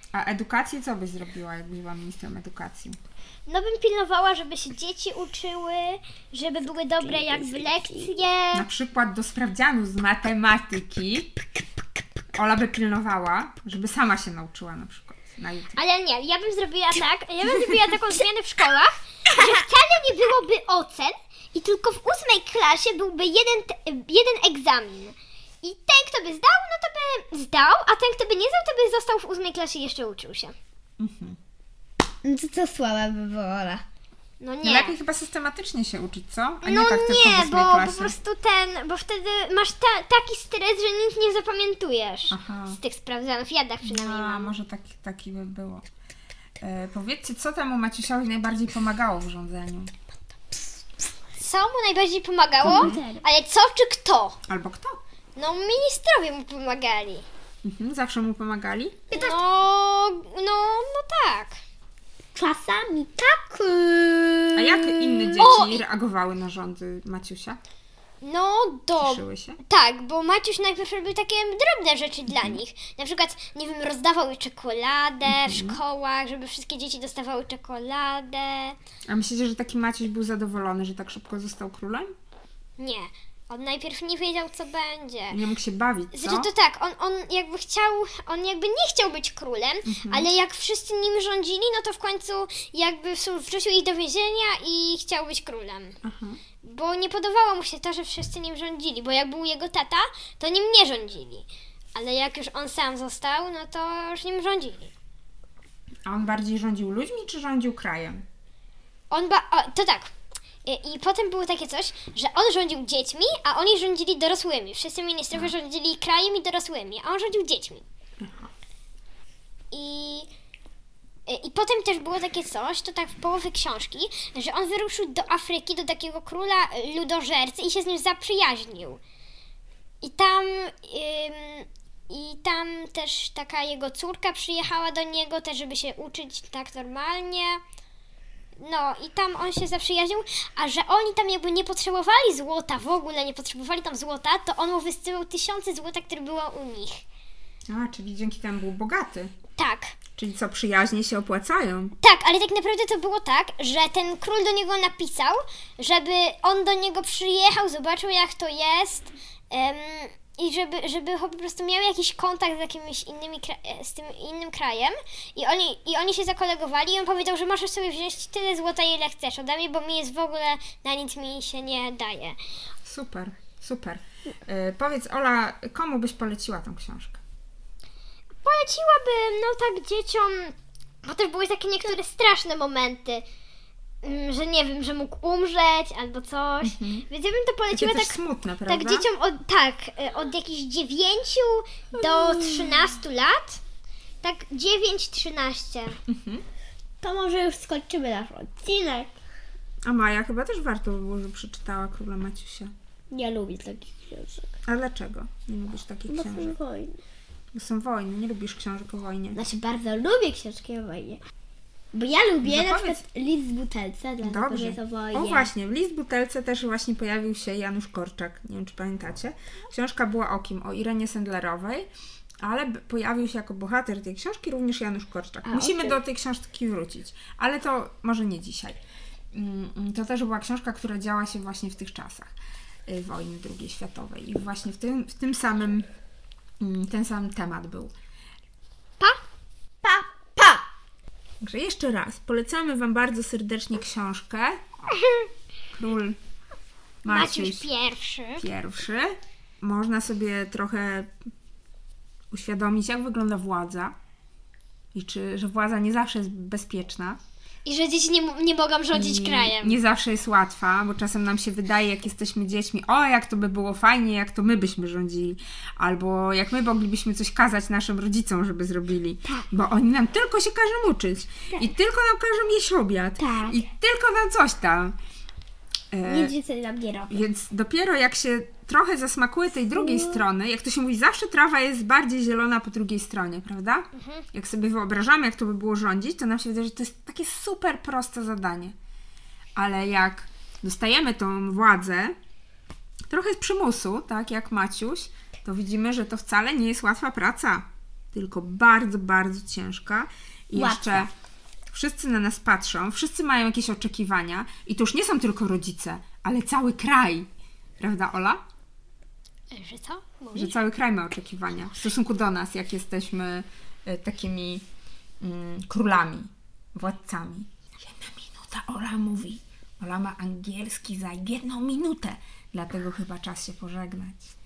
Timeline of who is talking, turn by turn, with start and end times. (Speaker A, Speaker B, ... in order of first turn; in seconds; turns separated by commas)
Speaker A: 0.1-3.0, Speaker B: 3.5-8.7, Speaker C: 7.0-8.1, Speaker A: 8.5-11.3, Speaker C: 11.5-11.8, Speaker A: 12.3-15.8, Speaker B: 15.7-30.5, Speaker A: 31.0-31.4, Speaker C: 32.2-33.8, Speaker B: 34.4-35.0, Speaker A: 34.6-38.2, Speaker B: 36.6-44.5, Speaker A: 42.3-42.8, Speaker A: 43.8-45.9, Speaker A: 46.6-49.9, Speaker C: 50.5-50.8, Speaker B: 51.4-54.4, Speaker A: 52.6-53.0, Speaker C: 52.6-53.2, Speaker A: 54.5-55.0, Speaker B: 55.4-57.2, Speaker A: 57.6-59.0, Speaker C: 59.1-59.4, Speaker B: 59.1-61.6, Speaker C: 62.3-65.4, Speaker A: 64.5-67.6, Speaker B: 65.3-65.8, Speaker B: 68.2-78.8, Speaker A: 69.0-69.6, Speaker A: 72.3-72.6, Speaker A: 75.2-75.8, Speaker A: 79.1-82.1, Speaker B: 82.8-85.4, Speaker A: 85.3-86.5, Speaker B: 86.1-96.0, Speaker A: 89.8-90.3, Speaker A: 96.0-96.4, Speaker B: 96.6-104.9, Speaker A: 106.0-108.2, Speaker B: 109.1-110.1, Speaker B: 110.6-117.8, Speaker A: 118.2-118.5, Speaker B: 119.7-120.3, Speaker B: 121.3-129.0, Speaker B: 130.0-137.6, Speaker B: 138.6-147.0, Speaker A: 147.7-149.3, Speaker B: 149.6-149.9, Speaker A: 150.2-151.9, Speaker B: 152.0-172.4, Speaker A: 172.8-177.2, Speaker B: 178.4-183.2, Speaker B: 184.0-193.6, Speaker A: 186.6-187.1, Speaker A: 187.7-189.1, Speaker B: 194.2-196.0, Speaker A: 196.1-196.4, Speaker C: 197.0-199.1, Speaker A: 199.8-202.7, Speaker C: 203.1-204.5, Speaker A: 204.7-206.6, Speaker C: 206.1-207.0, Speaker A: 207.5-209.4, Speaker C: 209.3-211.2, Speaker C: 211.9-215.5, Speaker A: 212.4-213.0, Speaker A: 214.2-221.9, Speaker A: 222.4-228.8, Speaker C: 225.4-226.0, Speaker A: 229.3-232.3, Speaker A: 232.9-235.9, Speaker A: 236.6-237.9, Speaker C: 239.8-240.6, Speaker A: 241.4-244.6, Speaker B: 245.0-245.3, Speaker A: 245.7-246.2, Speaker A: 247.0-247.7, Speaker B: 247.1-248.4, Speaker A: 248.4-251.1, Speaker A: 252.3-253.9, Speaker A: 254.9-257.2, Speaker B: 257.6-259.8, Speaker A: 258.9-274.9, Speaker C: 273.2-273.6, Speaker A: 275.9-276.3, Speaker C: 276.0-277.2, Speaker A: 277.1-288.7, Speaker C: 279.7-280.2, Speaker B: 283.9-284.2, Speaker A: 289.6-292.1, Speaker A: 293.1-301.1, Speaker C: 300.5-301.1, Speaker A: 301.7-307.3, Speaker A: 307.8-308.4, Speaker B: 309.5-310.6, Speaker A: 310.3-314.6, Speaker A: 315.2-324.3